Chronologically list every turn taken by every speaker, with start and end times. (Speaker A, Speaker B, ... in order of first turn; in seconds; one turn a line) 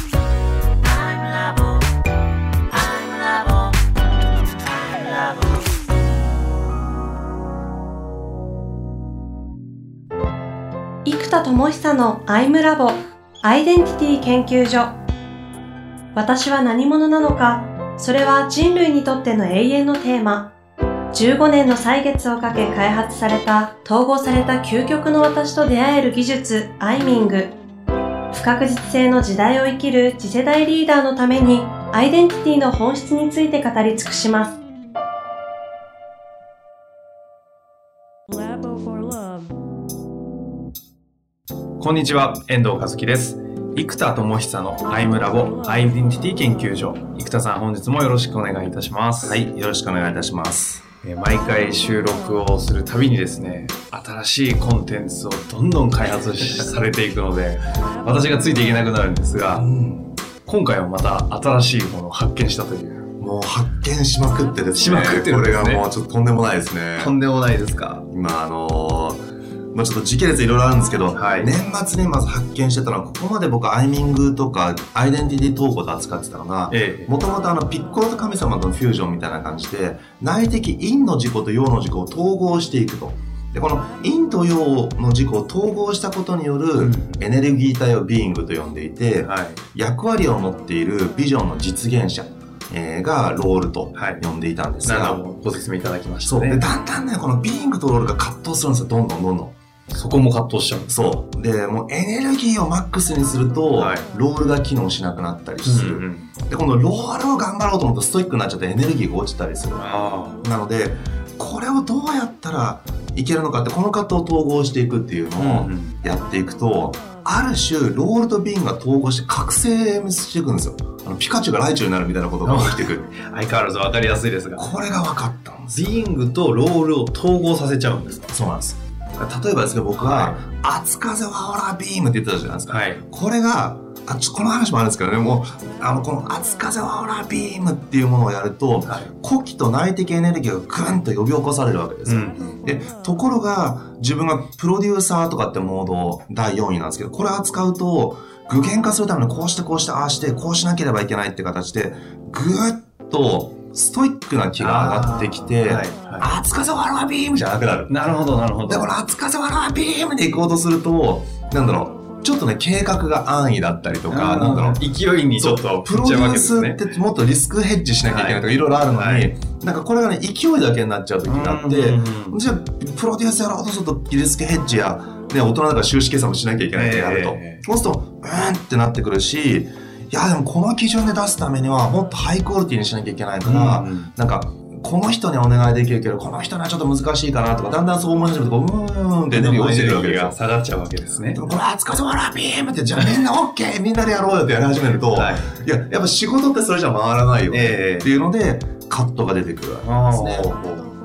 Speaker A: 1.1-1.6
Speaker A: 2.7-3.3
Speaker A: 11.1-15.0
Speaker A: 16.1-20.5
Speaker A: 21.1-27.6
Speaker A: 28.3-34.6
Speaker B: 41.8-49.4
Speaker C: 49.2-50.8
Speaker B: 51.0-59.6
Speaker C: 59.5-60.1
Speaker B: 60.5-63.0
Speaker C: 63.2-67.1
Speaker B: 64.8-65.8
Speaker B: 67.0-68.0
Speaker C: 68.1-95.2
Speaker B: 71.2-71.5
Speaker B: 76.7-77.1
Speaker B: 86.8-87.2
Speaker B: 89.2-89.6
Speaker B: 94.0-94.2
Speaker B: 94.8-96.7
Speaker C: 96.2-99.6
Speaker B: 99.9-101.2
Speaker C: 100.9-123.1
Speaker B: 103.8-104.1
Speaker B: 105.7-106.3
Speaker B: 109.8-110.4
Speaker B: 115.4-116.0
Speaker B: 122.4-124.7
Speaker C: 124.6-126.0
Speaker B: 125.7-128.3
Speaker C: 128.3-158.0
Speaker B: 130.0-130.4
Speaker B: 132.7-133.0
Speaker B: 142.1-142.5
Speaker B: 154.6-156.3
Speaker B: 157.9-158.9
Speaker C: 158.7-164.8
Speaker B: 164.1-166.8
Speaker C: 165.4-190.4
Speaker B: 168.1-169.3
Speaker B: 171.2-172.4
Speaker B: 176.7-177.6
Speaker B: 183.4-184.1
Speaker B: 189.3-191.4
Speaker C: 191.3-200.6
Speaker B: 193.0-193.2
Speaker B: 194.9-195.5
Speaker B: 197.5-198.1
Speaker B: 199.8-200.9